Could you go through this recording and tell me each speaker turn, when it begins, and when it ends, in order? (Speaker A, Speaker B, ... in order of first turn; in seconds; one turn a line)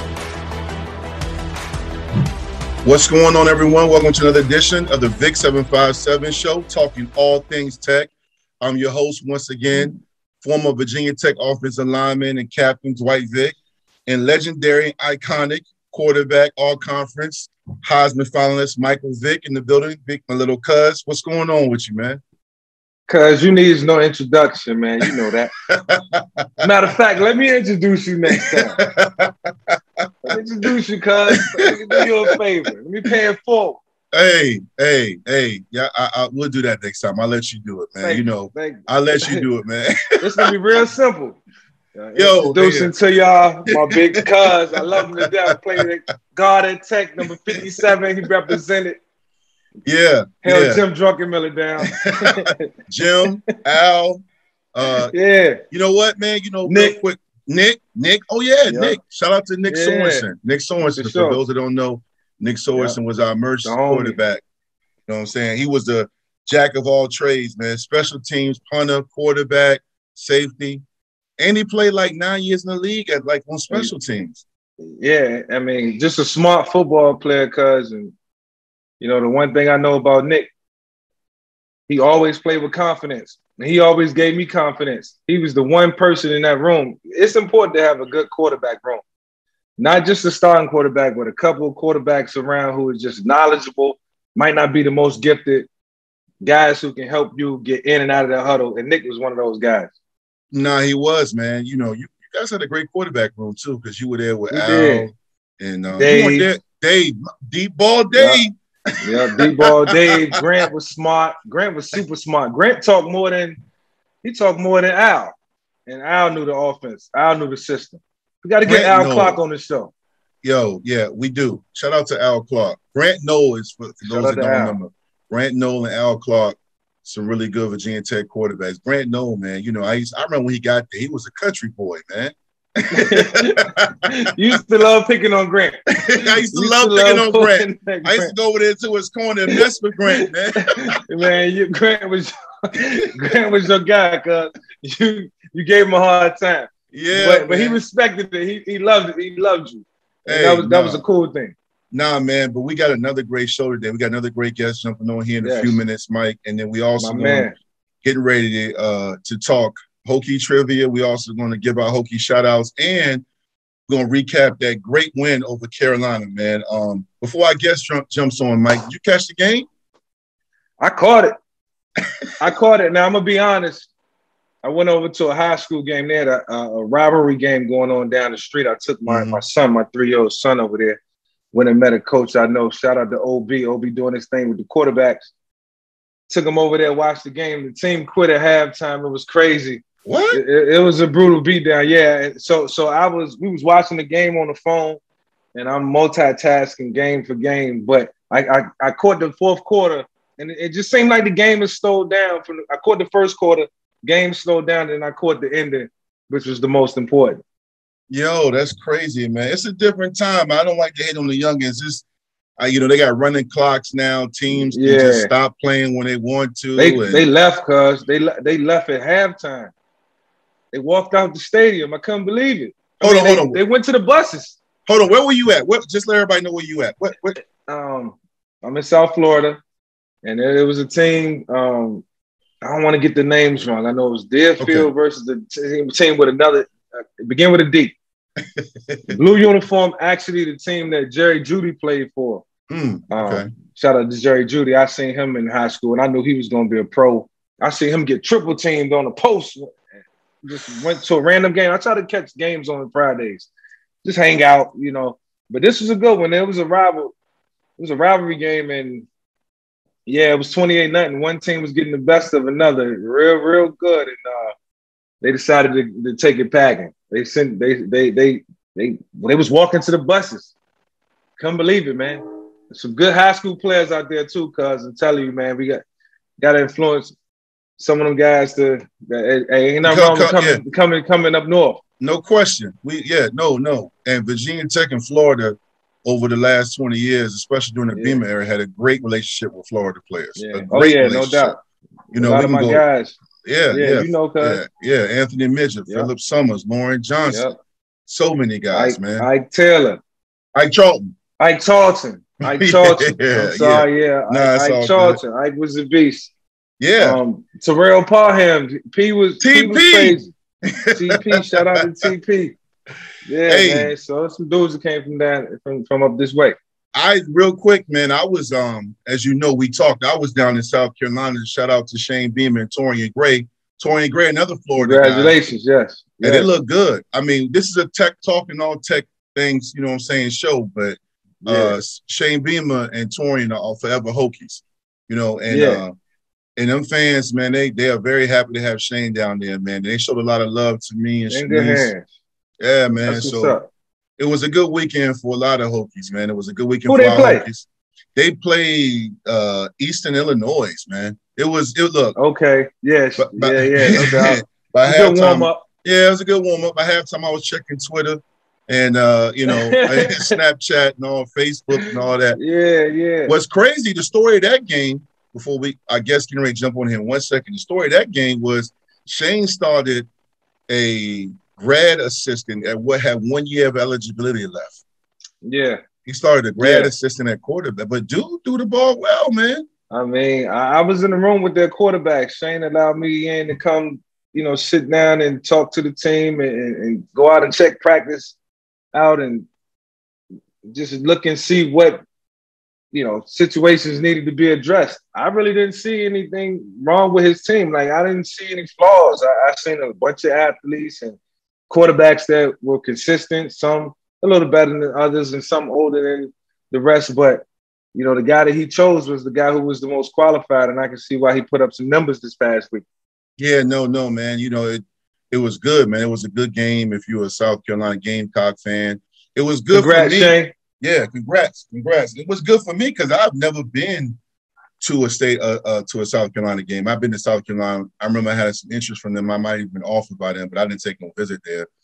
Speaker A: 2.8-13.6
Speaker A: 14.1-22.2
Speaker B: 23.1-25.5
Speaker A: 25.7-26.7
Speaker B: 26.6-28.8
Speaker A: 28.4-30.3
Speaker B: 30.3-33.8
Speaker A: 31.3-32.0
Speaker A: 34.1-40.5
Speaker B: 38.0-39.4
Speaker B: 40.2-41.4
Speaker B: 41.9-49.0
Speaker A: 42.1-42.9
Speaker A: 43.7-44.2
Speaker A: 44.8-45.5
Speaker A: 47.5-47.9
Speaker A: 49.8-50.8
Speaker B: 50.4-52.7
Speaker A: 52.1-55.1
Speaker B: 55.1-55.6
Speaker A: 55.7-64.4
Speaker B: 56.6-57.0
Speaker B: 58.7-59.0
Speaker B: 59.7-60.2
Speaker B: 60.9-61.4
Speaker B: 63.6-64.2
Speaker A: 65.1-70.8
Speaker A: 71.4-74.4
Speaker B: 75.0-78.1
Speaker B: 79.0-80.5
Speaker B: 81.9-89.0
Speaker B: 89.8-95.7
Speaker B: 96.4-99.9
Speaker A: 100.5-108.5
Speaker B: 104.5-105.1
Speaker B: 106.0-106.5
Speaker B: 108.1-108.4
Speaker B: 109.0-113.6
Speaker A: 109.3-110.2
Speaker B: 114.2-115.3
Speaker B: 115.9-119.9
Speaker A: 118.6-119.4
Speaker A: 120.4-134.1
Speaker B: 124.0-124.8
Speaker B: 132.9-138.3
Speaker A: 136.0-140.8
Speaker B: 140.2-151.5
Speaker A: 146.9-147.8
Speaker A: 150.2-151.0
Speaker A: 151.9-157.5
Speaker B: 155.4-155.8
Speaker B: 157.0-157.6
Speaker A: 158.0-163.2
Speaker A: 163.9-169.7
Speaker B: 170.8-171.3
Speaker B: 172.4-173.9
Speaker B: 174.6-181.0
Speaker A: 179.1-179.4
Speaker B: 181.5-185.3
Speaker B: 186.3-195.0
Speaker A: 190.0-190.4
Speaker B: 195.5-207.4
Speaker A: 208.1-212.0
Speaker A: 212.6-217.2
Speaker B: 214.5-215.3
Speaker B: 216.8-219.7
Speaker B: 220.7-224.6
Speaker A: 223.0-223.6
Speaker A: 224.9-227.4
Speaker B: 227.7-229.6
Speaker B: 230.2-232.0
Speaker B: 232.6-237.9
Speaker A: 234.6-234.9
Speaker A: 238.6-239.2
Speaker B: 239.1-242.4
Speaker A: 242.7-243.5
Speaker B: 243.1-249.8
Speaker B: 250.4-253.5
Speaker B: 254.0-257.1
Speaker B: 257.8-259.1
Speaker B: 260.1-264.5
Speaker B: 265.2-270.5
Speaker B: 271.4-275.8
Speaker B: 276.4-277.1
Speaker B: 277.8-281.8
Speaker A: 279.8-280.6
Speaker A: 282.0-291.6
Speaker B: 287.9-288.2
Speaker B: 290.4-291.6
Speaker A: 292.1-292.8
Speaker B: 292.1-293.2
Speaker A: 293.4-297.5
Speaker B: 293.7-294.6
Speaker B: 297.3-297.5
Speaker A: 298.1-299.2
Speaker B: 298.7-300.0
Speaker A: 300.5-301.1
Speaker B: 301.4-306.3
Speaker A: 302.4-305.2
Speaker A: 306.8-307.2
Speaker B: 307.0-310.3
Speaker A: 309.4-311.9
Speaker B: 310.9-312.6
Speaker B: 313.2-316.6
Speaker A: 313.5-313.9
Speaker A: 316.9-325.4
Speaker B: 324.8-326.5
Speaker A: 326.2-335.9
Speaker B: 331.4-331.8
Speaker B: 335.5-335.8
Speaker A: 336.6-341.9
Speaker B: 341.3-342.0
Speaker A: 342.6-343.6
Speaker B: 343.1-343.7
Speaker A: 344.2-352.1
Speaker B: 346.9-347.4
Speaker B: 352.1-355.6
Speaker A: 353.2-362.4
Speaker B: 359.5-360.4
Speaker B: 362.4-363.3
Speaker A: 363.2-370.1
Speaker A: 370.7-374.8
Speaker B: 375.4-375.8
Speaker A: 376.1-379.7
Speaker B: 376.6-376.9
Speaker B: 379.9-388.3
Speaker B: 388.9-389.5
Speaker B: 390.6-392.0
Speaker B: 392.9-401.2
Speaker B: 401.7-412.8
Speaker A: 413.4-424.2
Speaker B: 419.7-420.5
Speaker A: 424.8-431.7